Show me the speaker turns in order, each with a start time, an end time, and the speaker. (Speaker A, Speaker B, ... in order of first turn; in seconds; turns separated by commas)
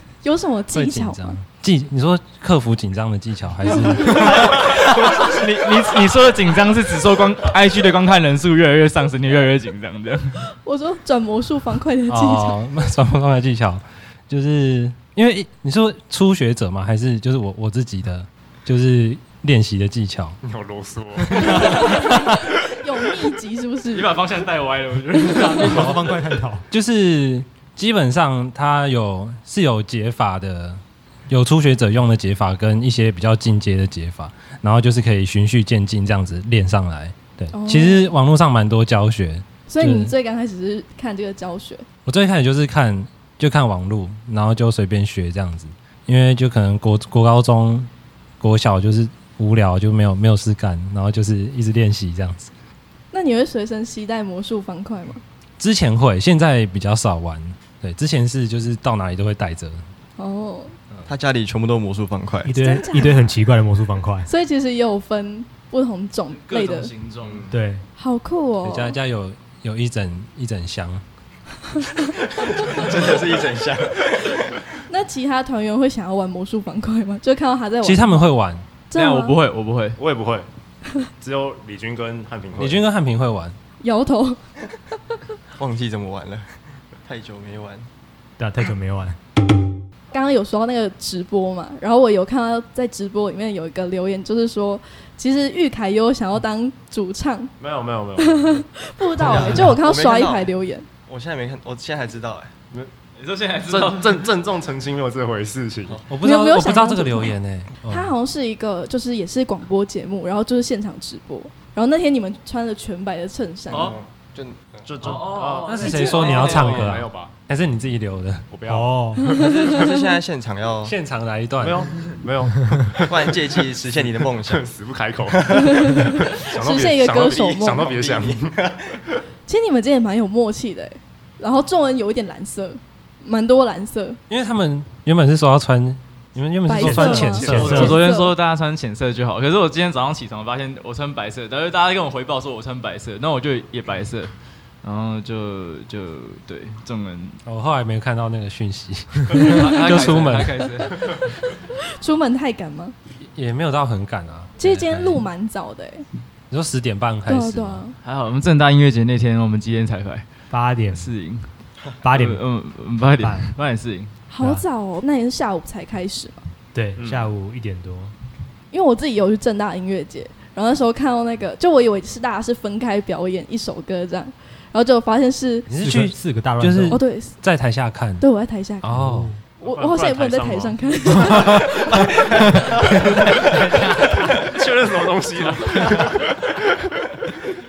Speaker A: 0.2-1.4, Speaker B: 0.7-4.7, Speaker A: 3.7-4.2, Speaker C: 4.0-10.4, Speaker A: 10.6-12.5, Speaker B: 12.1-20.4, Speaker D: 20.4-22.0, Speaker A: 21.4-24.1, Speaker C: 23.9-26.0, Speaker E: 25.2-26.6, Speaker B: 26.7-40.1, Speaker A: 37.5-38.1, Speaker A: 39.7-41.8, Speaker B: 42.0-47.9, Speaker B: 48.4-52.5, Speaker A: 53.1-55.2, Speaker B: 55.6-59.8, Speaker A: 60.2-60.7, Speaker F: 61.0-62.5, Speaker E: 62.4-64.3, Speaker A: 62.5-63.4, Speaker A: 64.2-66.9, Speaker C: 66.3-67.4, Speaker F: 67.2-67.5, Speaker E: 67.5-67.8, Speaker A: 68.0-69.0, Speaker B: 68.6-71.0, Speaker F: 72.5-74.6, Speaker A: 74.9-78.3, Speaker B: 77.8-78.7, Speaker A: 78.9-79.3, Speaker C: 78.9-80.0, Speaker D: 80.0-80.5, Speaker D: 81.2-82.8, Speaker B: 82.5-83.5, Speaker A: 83.8-84.4, Speaker F: 85.5-87.9, Speaker E: 88.4-89.2, Speaker A: 90.1-97.5, Speaker D: 97.6-98.7, Speaker A: 98.2-100.8, Speaker E: 99.2-99.7, Speaker F: 99.2-100.5, Speaker F: 101.0-102.5, Speaker C: 103.2-104.3, Speaker D: 103.7-106.0, Speaker B: 106.1-108.1, Speaker A: 106.2-113.9, Speaker F: 113.7-114.7, Speaker C: 113.7-114.0, Speaker D: 114.8-117.4, Speaker C: 115.0-117.0, Speaker B: 115.6-118.5, Speaker A: 115.8-116.4, Speaker D: 118.5-119.8, Speaker E: 118.7-119.3, Speaker A: 119.4-119.9, Speaker F: 119.4-121.0, Speaker B: 120.8-121.8, Speaker D: 121.6-128.5, Speaker F: 123.1-124.7, Speaker F: 125.4-125.7, Speaker A: 125.5-127.9, Speaker F: 127.3-129.0, Speaker A: 129.5-134.2, Speaker B: 134.3-138.0, Speaker A: 136.7-138.3, Speaker E: 136.8-138.0, Speaker C: 137.4-144.3, Speaker C: 144.8-147.4, Speaker B: 147.4-150.7, Speaker C: 149.3-151.2, Speaker A: 151.0-152.9, Speaker B: 153.2-155.2, Speaker A: 154.6-156.1, Speaker B: 156.5-157.8, Speaker A: 157.3-157.9, Speaker C: 158.0-160.2, Speaker E: 160.5-161.1, Speaker C: 160.9-161.5, Speaker E: 162.0-162.4, Speaker C: 162.1-164.1, Speaker E: 163.2-163.5, Speaker A: 164.3-166.5, Speaker E: 166.7-168.1, Speaker D: 167.0-167.3, Speaker A: 168.7-175.7, Speaker B: 175.7-178.2, Speaker E: 175.8-177.0, Speaker A: 176.9-177.4, Speaker A: 178.2-178.9, Speaker B: 178.8-179.4, Speaker E: 178.9-179.4, Speaker D: 179.6-181.1, Speaker A: 179.6-182.1, Speaker B: 181.3-181.6, Speaker C: 183.5-184.3, Speaker D: 184.3-186.7